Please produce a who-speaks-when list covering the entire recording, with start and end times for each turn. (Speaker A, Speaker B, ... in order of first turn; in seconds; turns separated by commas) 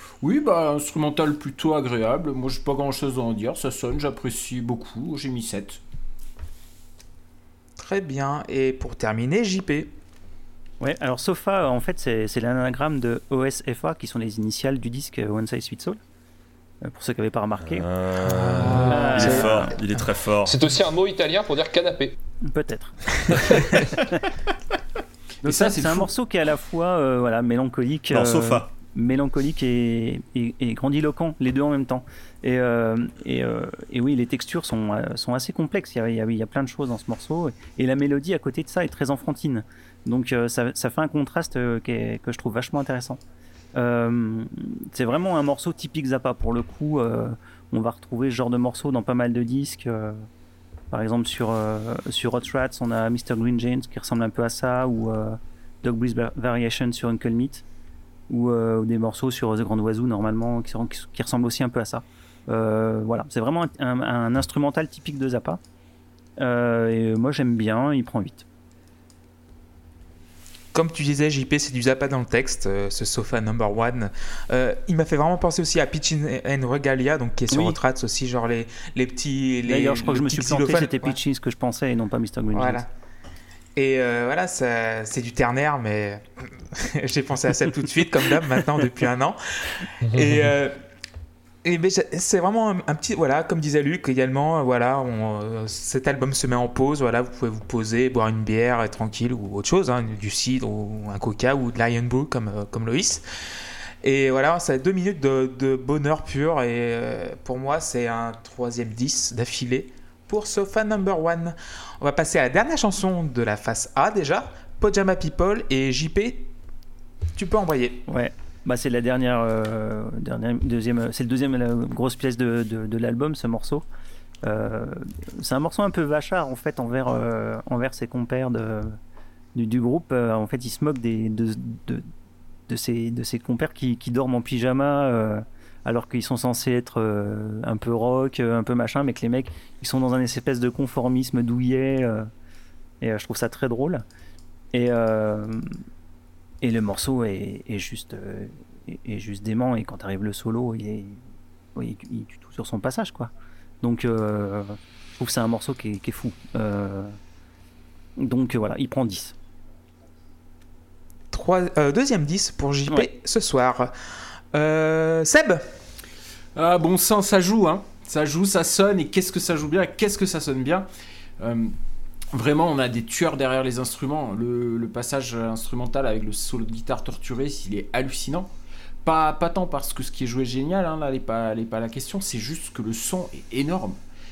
Speaker A: 0.2-5.8, Speaker B: 7.8-9.9, Speaker C: 10.8-16.0, Speaker C: 16.8-17.9, Speaker D: 17.7-20.6, Speaker B: 18.2-20.1, Speaker C: 18.9-19.8, Speaker E: 20.4-22.2, Speaker C: 22.5-23.4, Speaker B: 23.5-23.8, Speaker A: 25.4-26.1, Speaker C: 25.4-43.2, Speaker D: 28.1-28.7, Speaker C: 43.8-50.3, Speaker C: 50.9-57.6, Speaker C: 58.3-65.6, Speaker C: 66.4-68.5, Speaker B: 70.7-81.2, Speaker C: 77.5-77.8, Speaker C: 79.7-82.8, Speaker B: 82.5-82.9, Speaker B: 83.8-90.7, Speaker E: 90.1-90.4, Speaker B: 91.6-103.2, Speaker B: 104.0-116.5, Speaker B: 117.4-118.0, Speaker C: 118.1-123.8, Speaker C: 124.4-129.0, Speaker C: 129.6-132.1, Speaker C: 132.7-142.3, Speaker C: 143.0-144.1, Speaker C: 144.7-145.8, Speaker C: 146.6-151.2, Speaker C: 151.8-153.3, Speaker C: 153.8-157.2, Speaker C: 158.2-159.3, Speaker B: 161.3-163.9, Speaker B: 164.5-165.6, Speaker A: 166.6-170.9, Speaker A: 171.4-171.8, Speaker A: 172.3-178.5, Speaker A: 179.1-184.0